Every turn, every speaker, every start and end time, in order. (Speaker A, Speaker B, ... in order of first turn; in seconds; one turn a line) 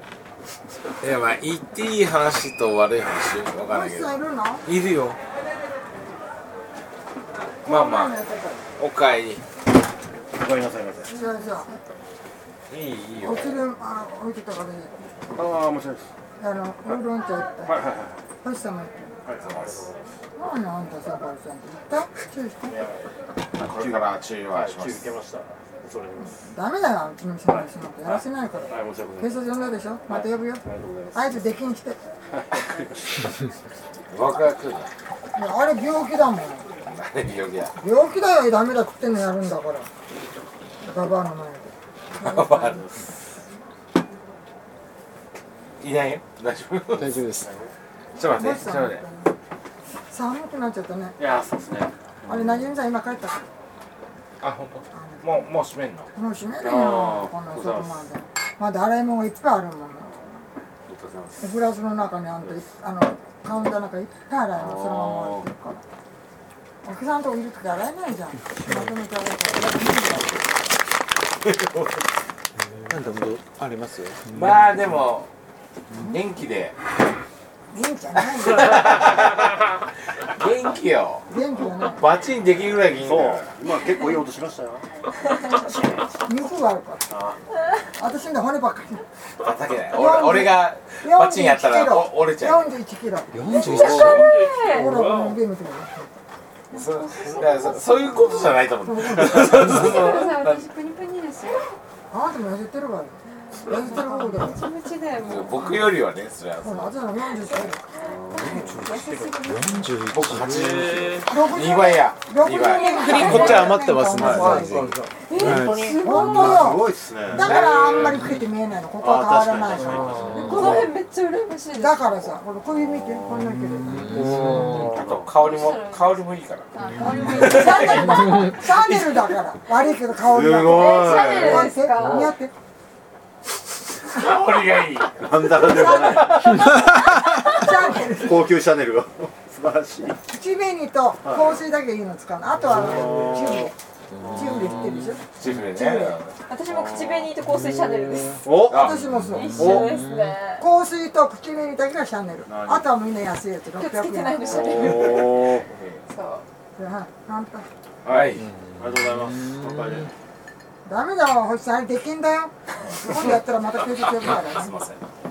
Speaker A: 1.0-5.2
Speaker B: 3.7-4.6
Speaker A: 7.7-8.2
Speaker B: 7.7-8.6
Speaker A: 8.8-9.4
Speaker C: 10.3-11.1
Speaker B: 11.1-11.7
Speaker D: 11.1-11.8
Speaker A: 12.7-13.6
Speaker B: 13.2-15.1
Speaker C: 15.3-16.1
Speaker B: 16.4-17.8
Speaker C: 17.6-18.2
Speaker B: 18.4-19.1
Speaker C: 19.2-20.0
Speaker A: 19.4-19.9
Speaker B: 20.4-22.8
Speaker A: 22.7-25.1
Speaker C: 23.6-26.5
Speaker B: 26.4-32.0
Speaker C: 27.5-29.4
Speaker C: 30.1-31.5
Speaker C: 32.3-33.0
Speaker A: 34.1-34.9
Speaker B: 35.3-36.7
Speaker A: 36.8-37.7
Speaker B: 37.8-39.9
Speaker B: 40.8-42.8
Speaker A: 42.2-42.8
Speaker A: 45.8-47.1
Speaker E: 46.9-47.5
Speaker C: 47.4-47.7
Speaker A: 48.2-49.0
Speaker B: 48.3-49.3
Speaker B: 50.1-51.1
Speaker C: 51.2-52.7
Speaker B: 52.3-53.5
Speaker A: 54.4-56.1
Speaker B: 54.9-55.3
Speaker B: 56.1-60.4
Speaker C: 56.6-58.1
Speaker C: 60.9-61.5
Speaker B: 61.4-65.8
Speaker C: 64.5-65.5
Speaker B: 66.8-70.5
Speaker E: 72.9-74.5
Speaker A: 74.3-75.3
Speaker A: 76.0-76.7
Speaker B: 77.7-79.1
Speaker A: 78.4-79.7
Speaker A: 80.2-83.5
Speaker B: 81.3-82.0
Speaker C: 83.0-84.8
Speaker B: 86.2-87.0
Speaker C: 87.1-87.4
Speaker B: 88.0-89.0
Speaker A: 89.4-92.7
Speaker B: 89.9-96.1
Speaker E: 93.3-94.3
Speaker D: 93.5-95.0
Speaker D: 96.7-98.4
Speaker A: 96.7-100.6
Speaker B: 98.8-99.9
Speaker D: 99.3-101.6
Speaker B: 102.1-104.6
Speaker D: 103.7-105.9
Speaker A: 105.2-107.0
Speaker B: 106.6-107.9
Speaker C: 108.0-108.9
Speaker D: 108.5-109.9
Speaker E: 109.5-110.8
Speaker A: 110.1-113.6
Speaker B: 111.2-114.9
Speaker D: 112.5-113.8
Speaker E: 113.0-115.9
Speaker C: 114.1-117.8
Speaker D: 115.3-116.8
Speaker B: 116.0-120.9
Speaker A: 117.4-118.3
Speaker C: 119.0-120.9
Speaker D: 120.3-122.2
Speaker B: 121.7-124.9
Speaker C: 122.7-123.5
Speaker E: 123.8-124.9
Speaker C: 124.2-125.3
Speaker A: 124.6-126.7
Speaker D: 125.3-128.6
Speaker B: 127.3-132.5
Speaker A: 127.4-128.0
Speaker A: 128.6-129.2
Speaker C: 130.2-131.7
Speaker D: 130.6-132.3
Speaker A: 134.1-137.0
Speaker C: 135.2-136.5
Speaker B: 135.6-138.5
Speaker D: 136.8-137.6
Speaker C: 138.1-140.2
Speaker B: 140.2-146.2
Speaker C: 141.2-141.6
Speaker C: 142.7-143.7
Speaker E: 144.2-145.0
Speaker C: 144.2-144.8
Speaker A: 145.3-146.3
Speaker D: 146.5-148.5
Speaker C: 146.7-147.3
Speaker C: 148.4-148.9
Speaker A: 148.7-149.2
Speaker B: 148.7-149.8
Speaker E: 149.0-150.3
Speaker D: 149.2-150.6
Speaker C: 149.6-149.9
Speaker B: 150.6-154.9
Speaker C: 152.5-152.9
Speaker D: 153.7-155.6
Speaker C: 154.4-155.7
Speaker A: 155.4-156.0
Speaker D: 156.1-156.4
Speaker B: 156.8-157.7
Speaker A: 158.0-158.4
Speaker C: 158.0-160.1
Speaker E: 158.4-160.1
Speaker B: 160.8-164.7
Speaker A: 164.0-165.0